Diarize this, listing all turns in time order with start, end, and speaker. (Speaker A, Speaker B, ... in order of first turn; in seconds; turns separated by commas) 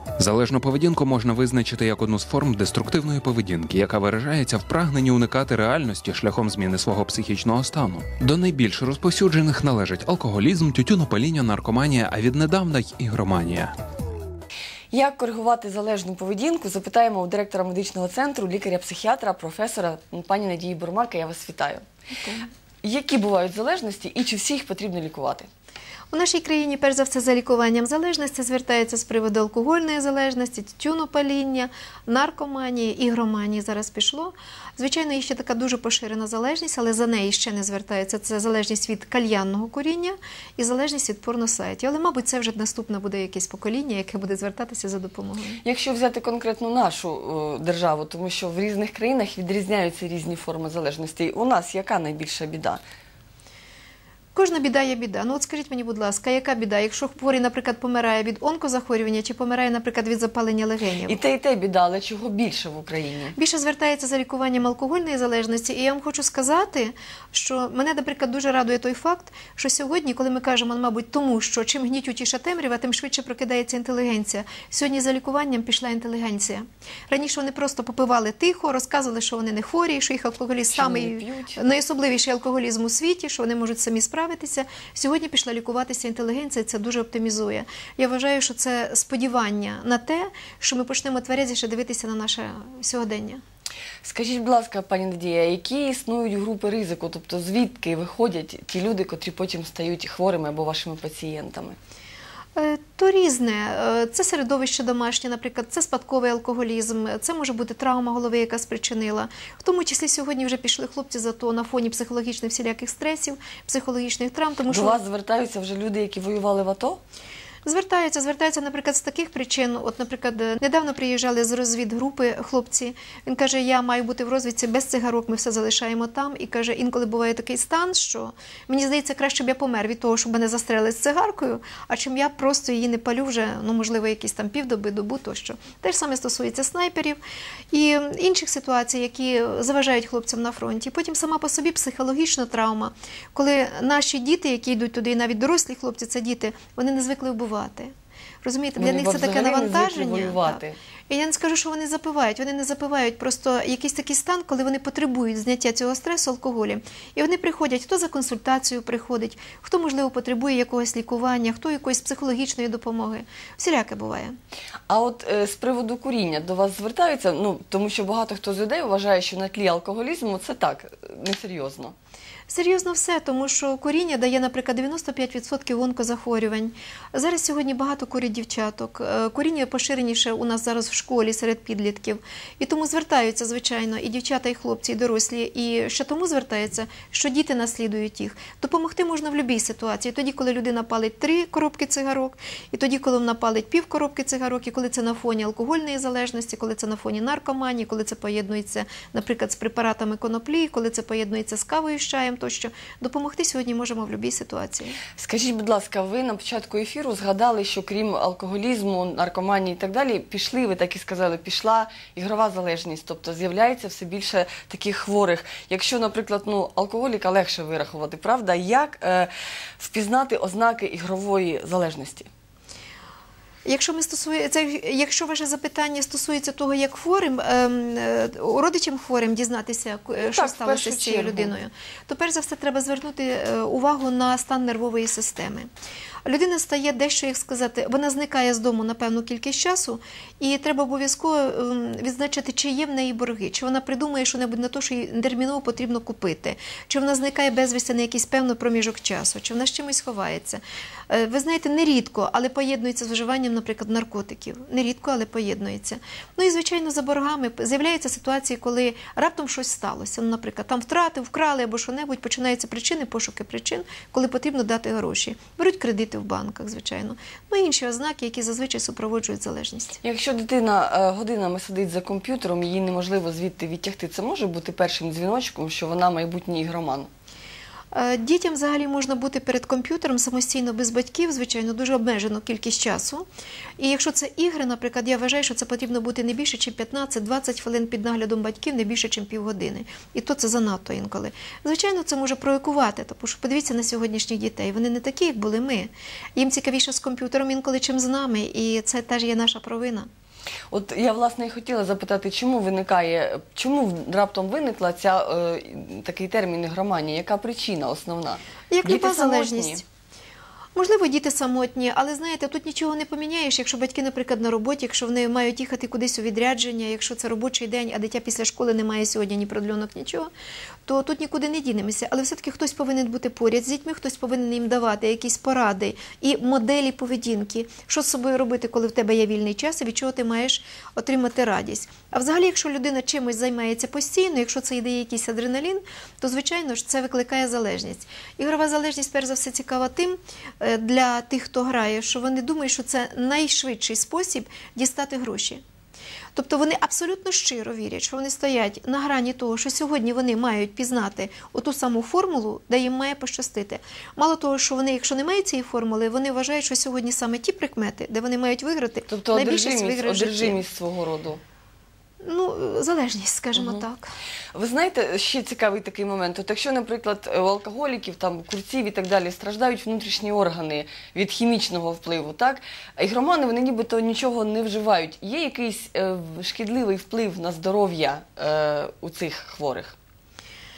Speaker A: 0.2-13.7, Speaker B: 14.9-21.8, Speaker C: 22.2-22.4, Speaker B: 22.8-25.5, Speaker C: 26.1-45.6, Speaker B: 45.6-52.8, Speaker C: 54.3-61.2, Speaker B: 61.1-63.3, Speaker C: 63.4-93.4, Speaker B: 80.7-81.7, Speaker B: 94.0-101.8, Speaker C: 102.5-115.0, Speaker B: 114.7-117.0, Speaker C: 117.6-137.2, Speaker C: 137.7-164.3, Speaker B: 148.8-150.8, Speaker B: 164.9-171.9, Speaker C: 172.5-205.0, Speaker B: 205.2-222.3, Speaker C: 223.7-235.7, Speaker B: 230.2-231.5, Speaker C: 236.2-270.0, Speaker B: 270.0-277.1, Speaker C: 277.9-283.3, Speaker C: 283.8-300.1, Speaker B: 300.7-309.8, Speaker C: 308.7-309.8, Speaker C: 310.8-320.3, Speaker C: 320.9-345.6, Speaker C: 346.3-360.6, Speaker B: 359.1-361.4, Speaker C: 362.2-364.1, Speaker B: 363.5-363.8, Speaker B: 364.5-379.9